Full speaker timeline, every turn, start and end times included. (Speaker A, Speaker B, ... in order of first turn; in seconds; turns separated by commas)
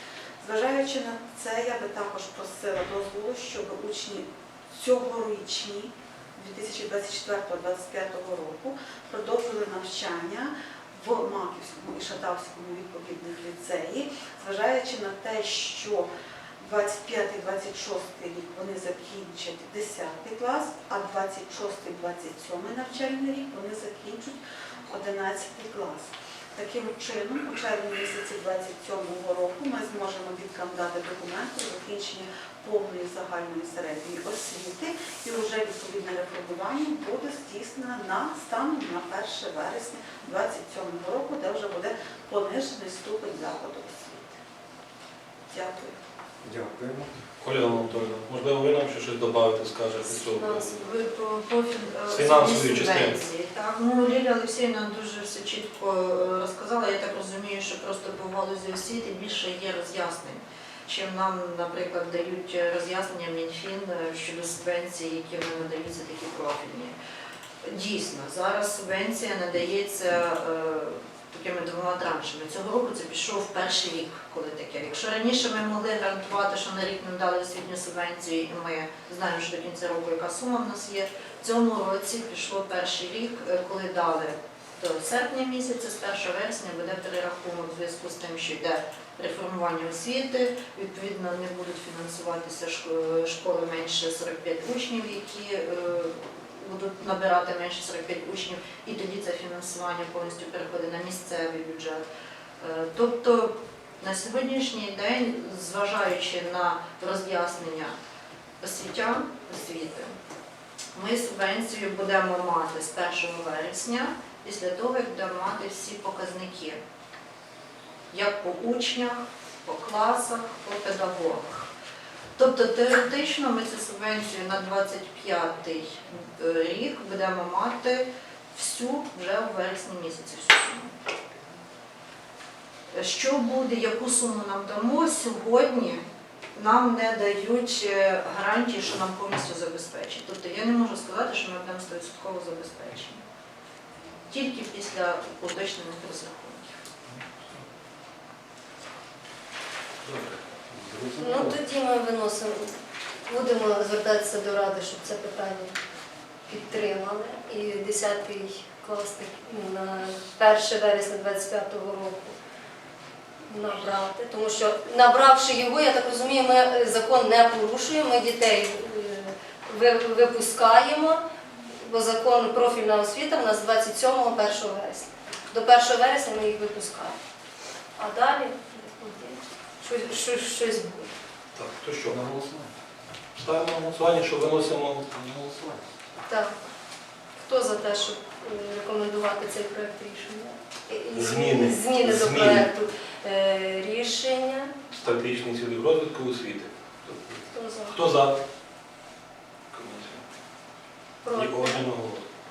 Speaker A: 0.4-16.1, Speaker A: 16.6-44.4, Speaker A: 45.5-46.0, Speaker B: 46.4-48.1, Speaker C: 47.4-50.8, Speaker D: 50.2-50.9, Speaker E: 50.8-66.9, Speaker C: 52.1-53.2, Speaker E: 67.7-96.1, Speaker E: 96.6-102.0, Speaker E: 102.6-103.5, Speaker E: 104.0-107.9, Speaker E: 108.6-110.1, Speaker E: 111.0-116.8, Speaker E: 118.1-121.4, Speaker E: 122.4-125.8, Speaker E: 126.4-128.0, Speaker E: 128.6-130.8, Speaker E: 133.0-136.0, Speaker E: 136.6-143.2, Speaker E: 144.3-146.6, Speaker B: 150.1-151.6, Speaker D: 151.2-152.7, Speaker D: 153.3-155.7, Speaker D: 156.5-162.3, Speaker D: 163.5-171.2, Speaker D: 171.8-177.2, Speaker D: 178.0-181.1, Speaker C: 181.6-182.2, Speaker B: 182.1-182.7, Speaker C: 183.3-185.6, Speaker D: 186.3-186.6, Speaker D: 187.4-194.7, Speaker C: 191.1-192.7, Speaker C: 194.9-198.4, Speaker D: 197.5-198.0, Speaker C: 199.7-200.2, Speaker D: 201.2-201.8, Speaker C: 201.2-202.3